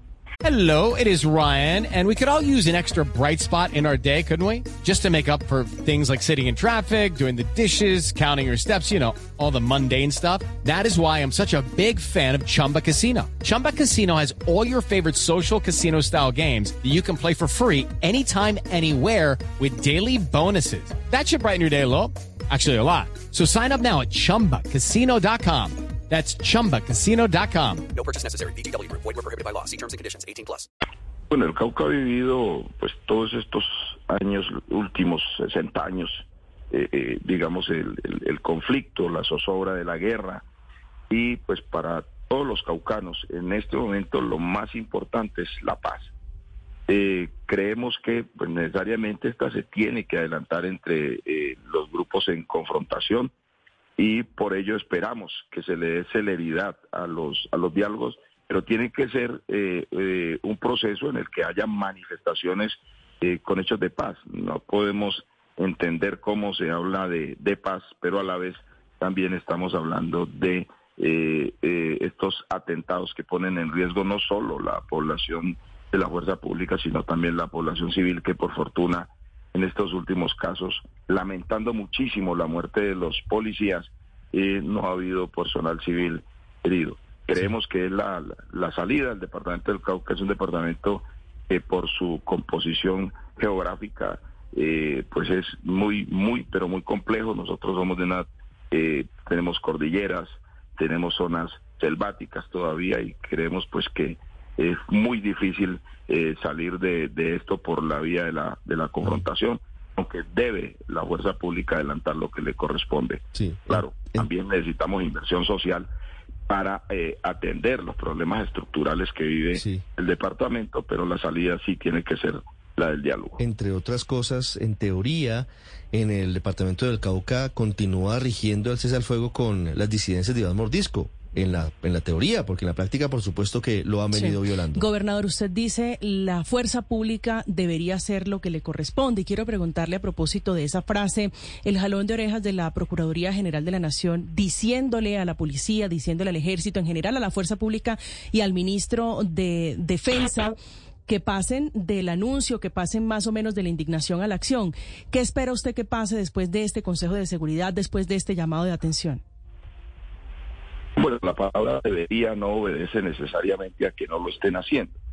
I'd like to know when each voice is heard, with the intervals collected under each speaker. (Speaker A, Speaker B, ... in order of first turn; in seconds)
Speaker A: 0.4-27.9
Speaker B: 27.9-30.6
Speaker C: 31.3-40.4, 41.1-46.1, 46.9-53.3, 54.0-115.9, 116.5-123.4, 161.0-164.9
Speaker D: 113.3-114.3, 119.5-119.8, 123.4-134.9
Speaker E: 134.1-150.5, 151.1-159.2